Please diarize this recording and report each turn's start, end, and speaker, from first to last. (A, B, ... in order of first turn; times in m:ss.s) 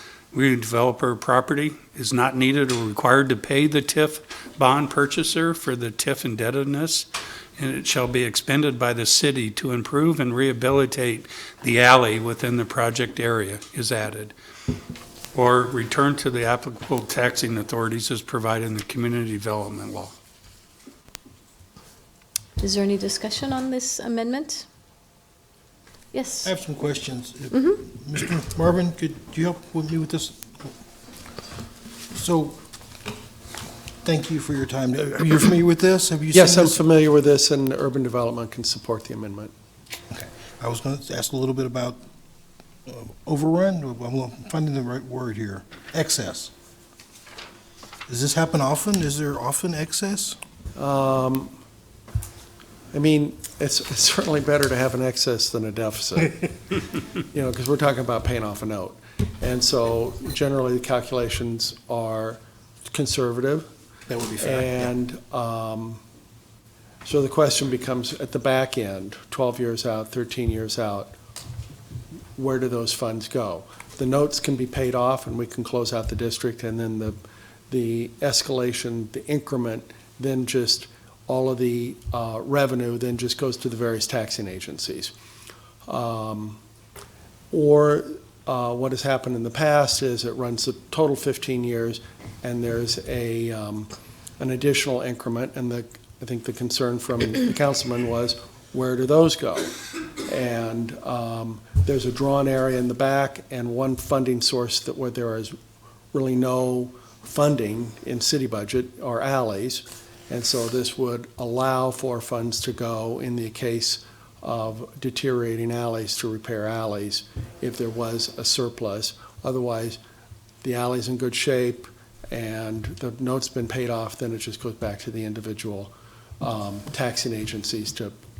0:00.3-0:14.3 A
0:15.3-0:20.1 A
0:22.6-0:24.7 B
0:26.1-0:26.5 B
0:26.4-0:30.7 C
0:32.1-0:32.6 C
0:34.0-0:36.8 C
0:36.3-0:39.5 D
0:40.1-0:42.0 C
0:42.9-0:46.5 C
0:48.1-0:50.4 C
0:50.8-0:51.5 D
0:52.9-1:03.7 D
1:04.1-1:04.9 C
1:04.4-1:06.0 D
1:07.0-1:11.1 D
1:12.4-1:17.2 D
1:17.7-1:25.1 D
1:25.9-1:26.6 D
1:27.5-1:39.7 D
1:40.3-1:45.6 D
1:46.1-2:00.0 D
2:00.6-2:08.1 D